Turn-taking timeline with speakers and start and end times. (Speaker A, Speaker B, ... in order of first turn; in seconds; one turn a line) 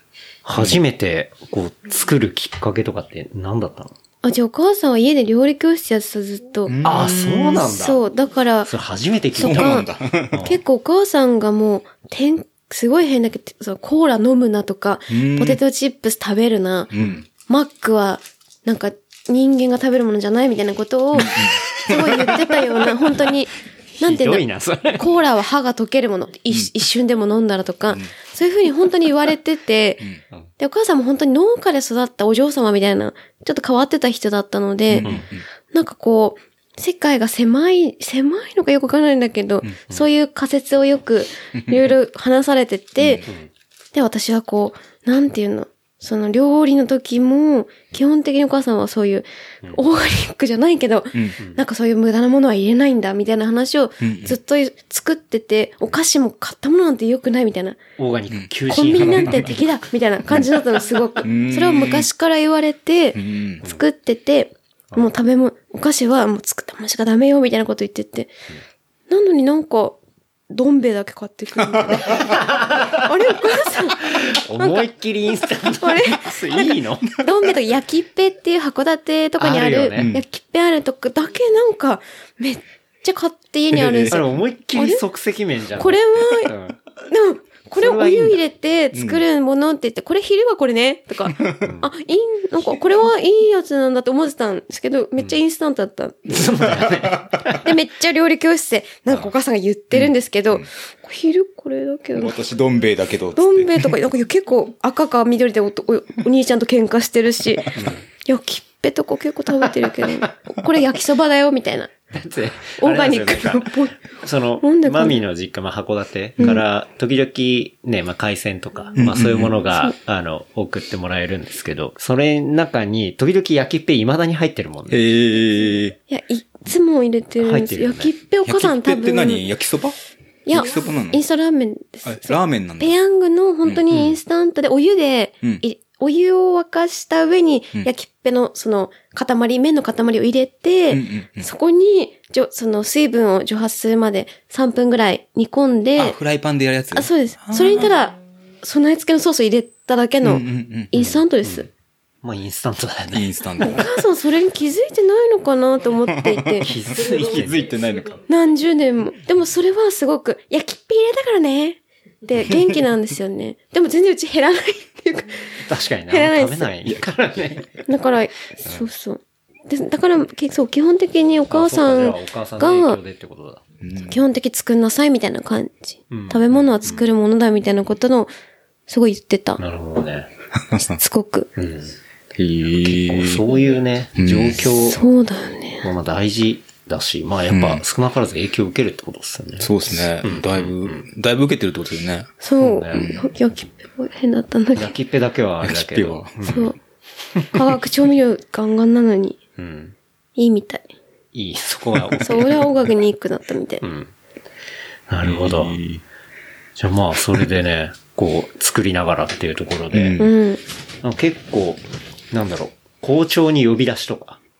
Speaker A: 0.5-3.9
Speaker B: 4.2-6.8
Speaker C: 6.7-7.7
Speaker A: 6.8-8.0
Speaker B: 7.5-8.7
Speaker A: 8.7-10.6
Speaker B: 9.4-9.9
Speaker C: 9.4-10.4
Speaker B: 10.4-16.9
Speaker C: 15.1-15.6
Speaker C: 16.9-17.2
Speaker B: 17.5-30.1
Speaker C: 21.2-22.3
Speaker A: 24.0-25.1
Speaker B: 30.6-35.2
Speaker C: 34.9-35.5
Speaker B: 35.7-43.2
Speaker C: 41.6-41.9
Speaker C: 43.0-43.3
Speaker B: 43.9-57.8
Speaker C: 54.0-54.4
Speaker A: 58.0-59.6
Speaker C: 58.3-59.6
Speaker B: 58.7-68.3
Speaker C: 61.2-62.1
Speaker C: 63.1-63.6
Speaker B: 69.1-70.0
Speaker B: 70.5-74.9
Speaker A: 72.2-73.0
Speaker A: 74.0-77.2
Speaker B: 75.8-84.2
Speaker A: 79.4-80.1
Speaker C: 80.0-80.2
Speaker C: 83.7-84.2
Speaker A: 84.1-86.8
Speaker B: 84.8-85.0
Speaker B: 85.8-86.5
Speaker B: 87.1-96.4
Speaker A: 87.8-88.4
Speaker C: 88.9-89.2
Speaker C: 91.3-91.7
Speaker A: 91.6-91.9
Speaker A: 96.3-97.6
Speaker C: 97.0-97.3
Speaker B: 97.6-102.3
Speaker C: 100.0-100.7
Speaker C: 102.2-104.0
Speaker B: 103.4-107.7
Speaker A: 107.8-108.0
Speaker B: 108.2-111.9
Speaker A: 112.1-125.4
Speaker B: 112.8-114.0
Speaker B: 114.6-115.2
Speaker C: 119.0-119.6
Speaker C: 124.9-126.0
Speaker B: 126.1-129.4
Speaker A: 127.4-128.1
Speaker C: 128.5-130.0
Speaker B: 130.5-146.2
Speaker C: 130.5-131.2
Speaker C: 132.1-133.0
Speaker A: 133.9-134.2
Speaker C: 140.9-141.5
Speaker C: 146.0-147.9
Speaker B: 146.9-151.7
Speaker C: 150.2-150.9
Speaker A: 151.0-151.7
Speaker A: 152.2-153.3
Speaker C: 153.1-153.9
Speaker B: 153.6-156.7
Speaker C: 156.1-158.2
Speaker A: 156.6-157.7
Speaker B: 158.3-166.7
Speaker A: 165.7-167.7
Speaker B: 167.9-173.0
Speaker A: 171.5-173.6
Speaker C: 173.8-174.2
Speaker B: 174.0-178.3
Speaker A: 176.1-177.0
Speaker B: 178.9-179.6
Speaker A: 179.6-180.3
Speaker C: 180.6-181.0
Speaker B: 181.0-181.5
Speaker A: 181.6-182.0
Speaker C: 182.4-183.4
Speaker A: 182.8-185.0
Speaker C: 184.2-184.7
Speaker B: 184.8-185.9
Speaker A: 185.8-191.1
Speaker C: 187.5-187.8
Speaker C: 189.6-192.3
Speaker B: 192.4-194.9
Speaker A: 192.6-193.1
Speaker C: 192.9-193.2
Speaker A: 194.8-196.7
Speaker C: 195.6-196.7
Speaker B: 196.4-196.8
Speaker B: 197.5-199.4
Speaker A: 199.6-200.0
Speaker B: 200.4-200.9
Speaker A: 201.3-202.6
Speaker B: 202.2-203.8
Speaker A: 203.8-204.1
Speaker A: 205.1-205.8
Speaker C: 205.2-206.0
Speaker A: 206.8-210.2
Speaker C: 209.9-210.3
Speaker B: 210.2-210.6
Speaker A: 211.0-214.4